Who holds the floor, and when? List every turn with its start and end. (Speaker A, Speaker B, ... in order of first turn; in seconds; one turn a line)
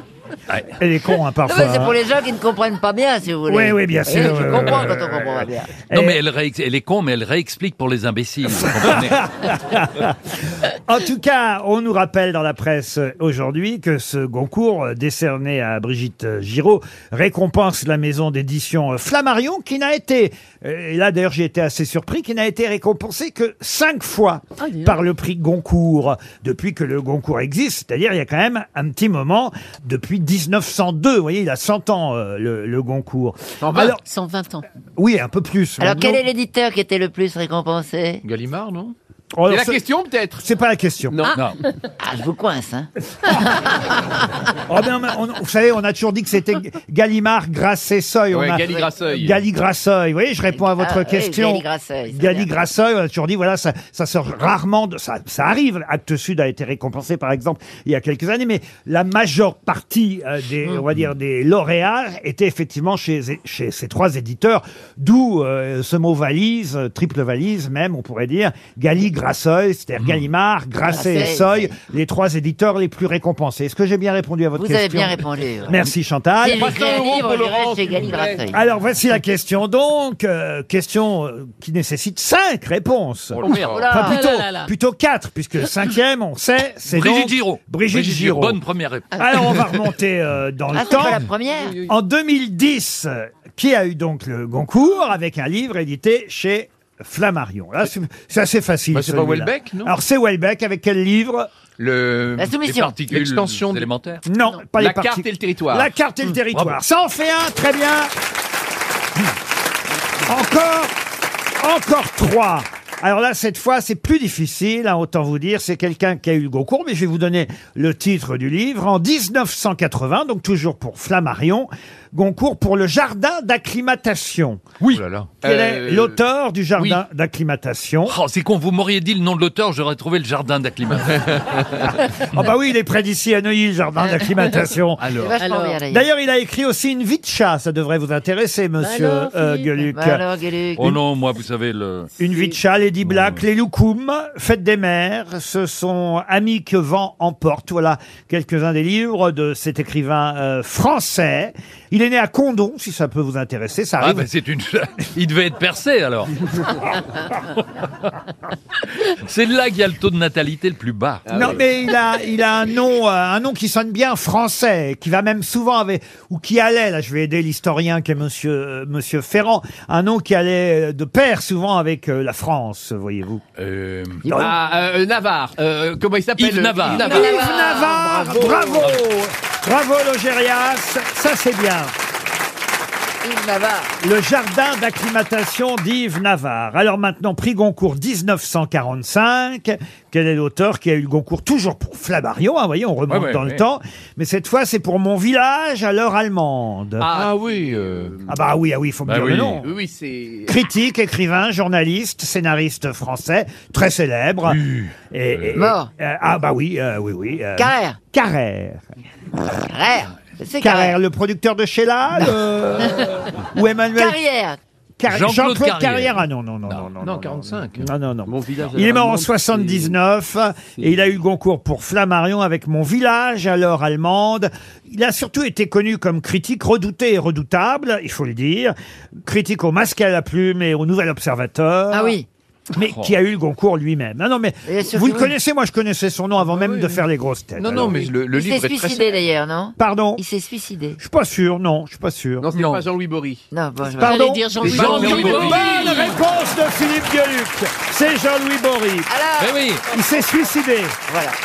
Speaker A: 0.7-2.0
Speaker B: 1.5-5.7
Speaker A: 3.5-6.2
Speaker C: 5.9-9.2
Speaker A: 8.7-10.2
Speaker A: 10.9-34.0
Speaker D: 24.6-25.0
Speaker E: 33.6-34.0
Speaker D: 34.0-34.6
Speaker A: 35.0-36.2
Speaker B: 35.8-38.2
Speaker F: 38.2-38.9
Speaker A: 39.3-39.8
Speaker E: 39.5-40.4
Speaker A: 40.4-41.2
Speaker B: 42.0-42.9
Speaker A: 44.7-76.7
Speaker E: 48.3-49.4
Speaker B: 50.5-52.5
Speaker B: 70.9-71.8
Speaker B: 74.6-75.8
Speaker B: 76.4-78.6
Speaker E: 76.5-78.5
Speaker A: 78.5-88.6
Speaker E: 83.5-83.8
Speaker B: 83.7-84.2
Speaker D: 83.8-84.7
Speaker C: 86.9-89.4
Speaker A: 89.2-91.3
Speaker B: 90.7-91.8
Speaker D: 91.6-91.9
Speaker A: 91.9-101.5
Speaker F: 98.9-99.9
Speaker F: 101.8-103.9
Speaker B: 102.4-103.0
Speaker C: 102.6-104.2
Speaker A: 104.3-108.1
Speaker E: 104.8-105.9
Speaker A: 110.3-111.0
Speaker A: 111.6-124.6
Speaker F: 124.9-125.4
Speaker E: 125.4-126.2
Speaker A: 125.4-128.2
Speaker C: 128.1-131.6
Speaker A: 132.3-135.1
Speaker F: 135.1-135.3
Speaker B: 135.1-136.1
Speaker D: 135.4-135.8
Speaker A: 135.9-140.2
Speaker D: 138.8-139.9
Speaker B: 139.9-141.0
Speaker C: 140.8-142.1
Speaker A: 142.2-154.3
Speaker C: 143.1-143.4
Speaker C: 154.0-156.7
Speaker C: 159.2-161.6
Speaker E: 161.3-161.6
Speaker A: 161.3-173.4
Speaker C: 173.6-174.2
Speaker A: 174.3-174.5
Speaker E: 174.3-177.6
Speaker C: 176.4-177.4
Speaker A: 176.9-181.9
Speaker B: 177.1-178.7
Speaker B: 183.2-183.9
Speaker A: 184.0-197.1
Speaker C: 193.1-193.6
Speaker E: 197.0-198.2
Speaker F: 197.1-198.2
Speaker A: 198.3-199.7
Speaker C: 199.1-199.6
Speaker E: 199.6-200.6
Speaker A: 200.5-204.6
Speaker C: 204.5-205.6
Speaker A: 205.1-208.8
Speaker B: 205.5-205.9
Speaker B: 207.6-208.0
Speaker B: 209.5-211.0
Speaker A: 210.6-214.2
Speaker B: 212.8-213.1
Speaker B: 214.0-214.6
Speaker A: 215.0-228.7
Speaker C: 215.1-216.8
Speaker F: 217.0-219.8
Speaker A: 229.2-232.2
Speaker B: 231.9-232.3
Speaker A: 232.7-238.1
Speaker C: 232.8-233.1
Speaker B: 234.7-235.3
Speaker F: 237.6-239.1
Speaker B: 238.3-241.0
Speaker A: 239.8-240.2
Speaker A: 241.0-242.5
Speaker E: 242.4-243.4
Speaker C: 242.5-242.8
Speaker B: 243.5-244.4
Speaker A: 244.0-249.1
Speaker D: 244.0-246.0
Speaker C: 244.6-246.0
Speaker E: 245.1-245.6
Speaker B: 249.1-249.6
Speaker C: 249.4-249.8
Speaker A: 249.9-251.0
Speaker B: 251.1-251.4